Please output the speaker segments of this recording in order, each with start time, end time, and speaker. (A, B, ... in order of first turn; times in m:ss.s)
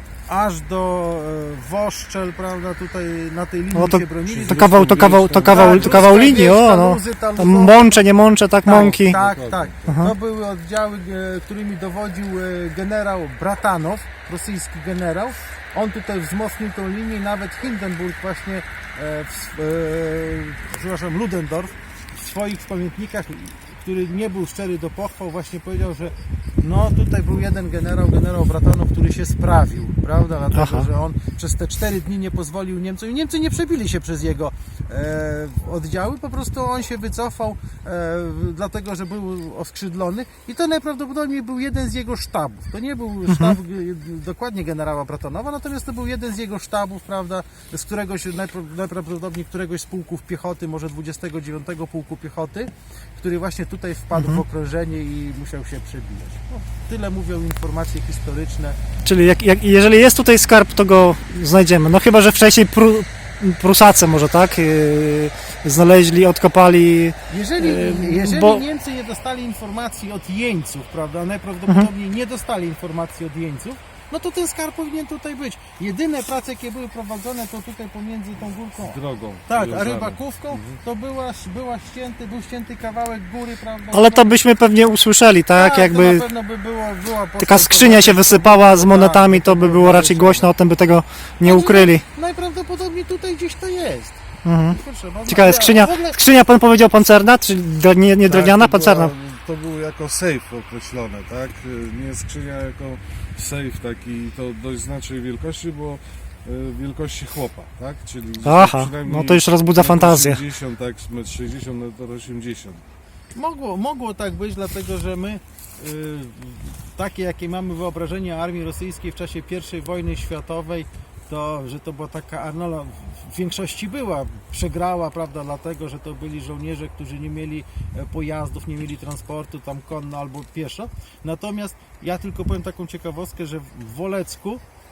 0:00.3-0:04.7 A
0:03.7-0:09.2 B
0:04.3-0:06.1 C
0:05.4-0:08.0 A
0:08.6-0:58.8 A
0:08.7-0:10.1 C
0:09.9-0:10.1 B
0:30.5-0:30.9 B
0:43.3-0:43.6 B
0:54.1-0:54.4 B
0:59.0-1:08.6 B
1:07.3-1:24.3 A
1:18.8-1:20.8 C
1:23.9-1:26.2 B
1:25.6-1:30.5 A
1:27.4-1:32.0 B
1:31.4-1:34.2 A
1:34.4-1:39.1 B
1:34.7-1:36.2 A
1:38.3-1:52.8 C
1:48.4-1:50.4 B
1:53.3-2:14.6 A